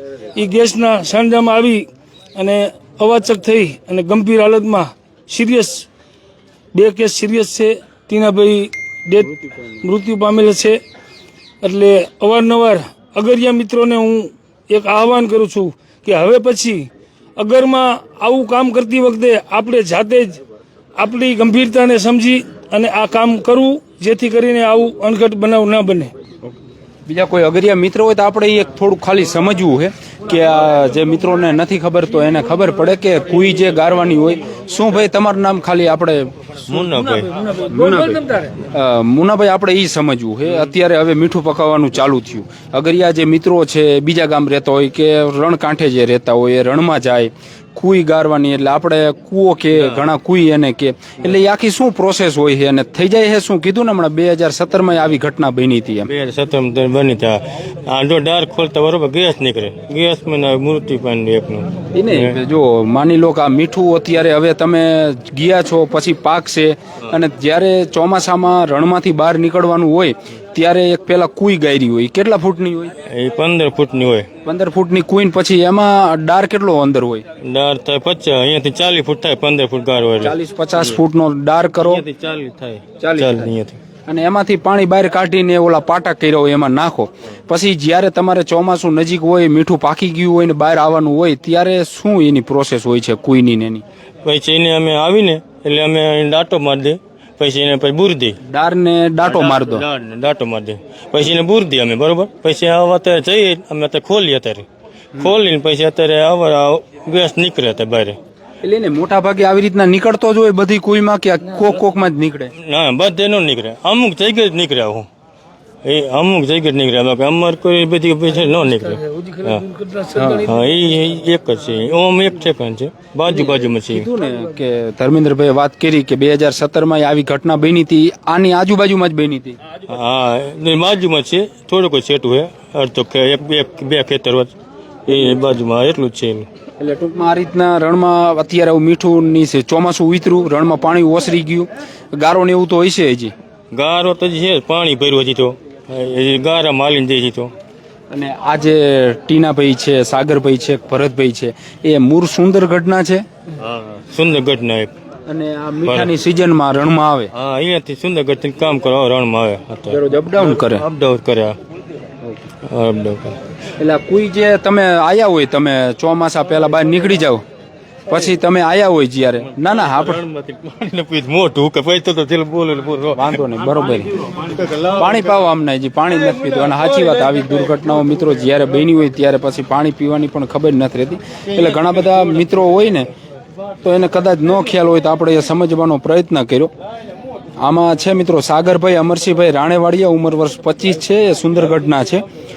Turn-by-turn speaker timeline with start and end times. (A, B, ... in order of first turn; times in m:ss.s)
0:00.3-0:05.9 A
0:06.7-0:10.8 A
0:11.6-0:20.4 A
0:21.0-0:26.1 A
0:27.1-0:36.3 B
0:36.7-0:37.3 C
0:37.4-0:38.5 A
0:37.7-0:56.1 B
0:49.8-0:50.0 C
0:56.1-1:02.4 C
1:01.9-1:12.9 B
1:13.1-1:14.3 C
1:14.4-1:17.2 B
1:17.4-1:21.0 C
1:20.2-1:22.0 B
1:21.7-1:23.8 C
1:23.0-1:23.5 B
1:24.1-1:33.8 B
1:34.2-1:38.4 C
1:38.4-1:39.8 B
1:39.2-1:48.2 C
1:48.6-1:52.5 B
1:52.5-1:55.1 C
1:55.8-1:59.6 C
1:58.9-2:00.6 A
2:00.2-2:00.5 B
2:00.4-2:04.1 C
2:03.9-2:09.6 B
2:09.9-2:14.5 C
2:15.0-2:16.5 C
2:16.8-2:23.3 B
2:23.7-2:27.5 C
2:28.1-2:33.2 B
2:33.6-2:34.9 C
2:35.3-2:37.3 B
2:35.8-2:36.1 C
2:37.3-2:41.6 C
2:39.9-2:40.8 B
2:42.6-2:43.4 C
2:43.8-2:47.4 B
2:48.1-2:50.2 B
2:49.5-2:53.5 C
2:53.1-2:54.2 B
2:54.2-2:55.1 C
2:54.9-3:03.1 B
3:03.8-3:06.7 B
3:07.6-3:12.2 B